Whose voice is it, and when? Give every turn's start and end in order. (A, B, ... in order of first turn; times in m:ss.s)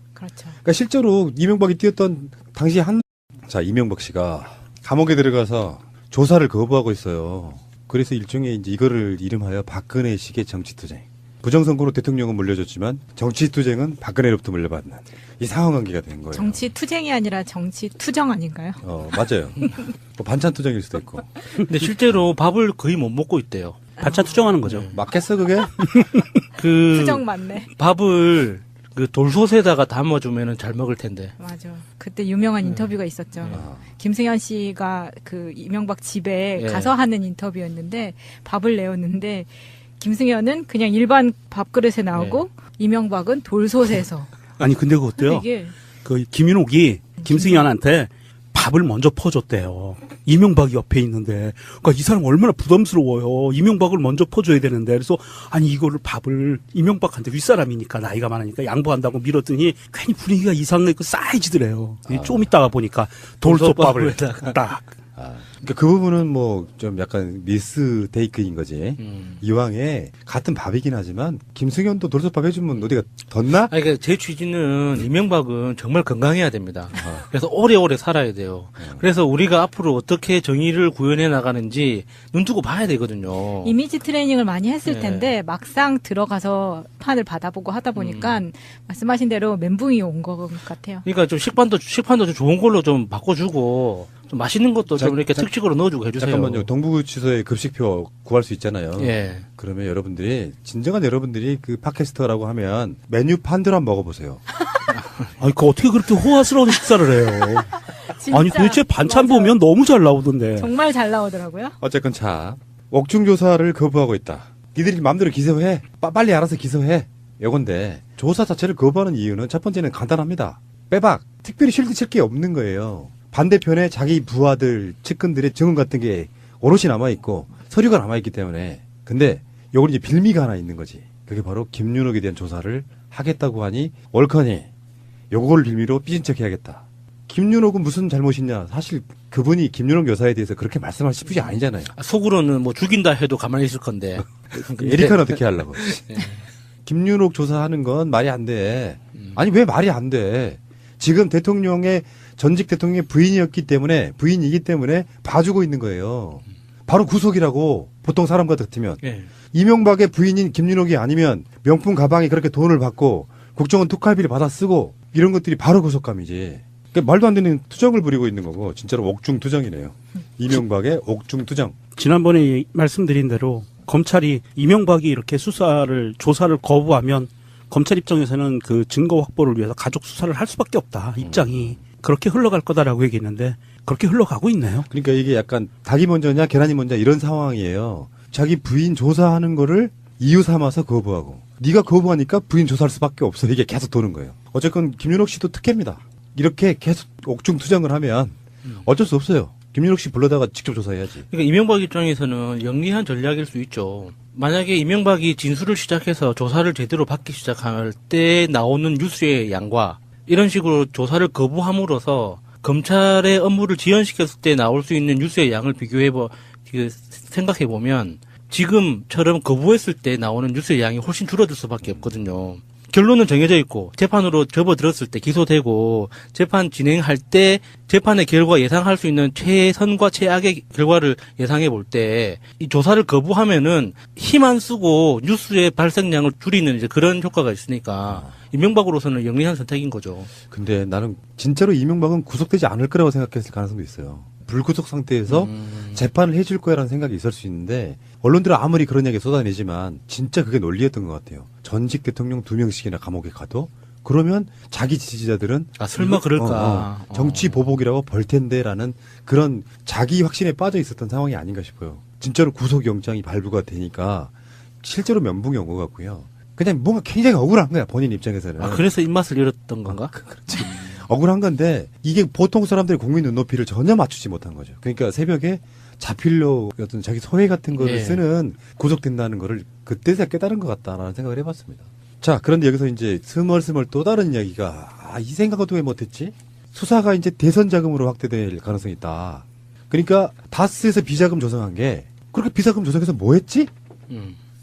0:00.2-0:00.6 A
0:00.6-0:16.7 B
0:16.3-0:18.8 A
0:18.8-0:21.3 B
0:19.6-0:19.8 A
0:21.6-0:23.8 C
0:24.0-0:24.4 A
0:24.0-0:24.9 D
0:24.6-0:25.0 C
0:24.9-0:25.8 B
0:25.8-0:26.4 D
0:26.6-0:31.4 C
0:26.9-0:27.7 A
0:31.4-0:44.3 A
0:32.6-0:33.6 C
0:33.5-0:33.8 B
0:36.6-0:36.9 C
0:42.1-0:42.4 C
0:44.6-0:45.4 D
0:45.2-0:45.7 A
0:46.0-1:04.9 D
0:47.2-0:47.7 A
1:02.1-1:02.5 B
1:03.4-1:04.6 C
1:05.2-1:13.7 B
1:09.0-1:09.4 C
1:13.7-1:23.7 C
1:17.0-1:17.2 B
1:23.6-1:31.0 A
1:24.8-1:25.3 C
1:27.9-1:28.4 C
1:31.0-1:36.7 C
1:34.9-1:35.5 B
1:36.2-1:44.4 B
1:39.0-1:39.4 C
1:45.0-1:45.3 C
1:45.4-1:47.8 D
1:48.0-1:49.5 A
1:48.3-1:50.7 D
1:50.6-1:51.8 A
1:51.8-2:14.7 B
2:15.3-2:21.9 B
2:21.9-2:26.4 C
2:24.7-2:25.8 B
2:26.8-2:51.8 B
2:29.1-2:29.4 C
2:39.0-2:39.3 C
2:52.0-3:04.9 D
3:01.2-3:01.8 B
3:04.9-3:21.3 B
3:21.3-4:00.3 C
3:41.8-3:42.1 B
3:58.1-3:58.3 B
4:00.5-4:28.9 B
4:05.3-4:06.1 C
4:15.8-4:17.7 C
4:28.6-4:31.0 C
4:29.9-4:53.7 B
4:37.7-4:38.2 C
4:54.1-4:54.4 C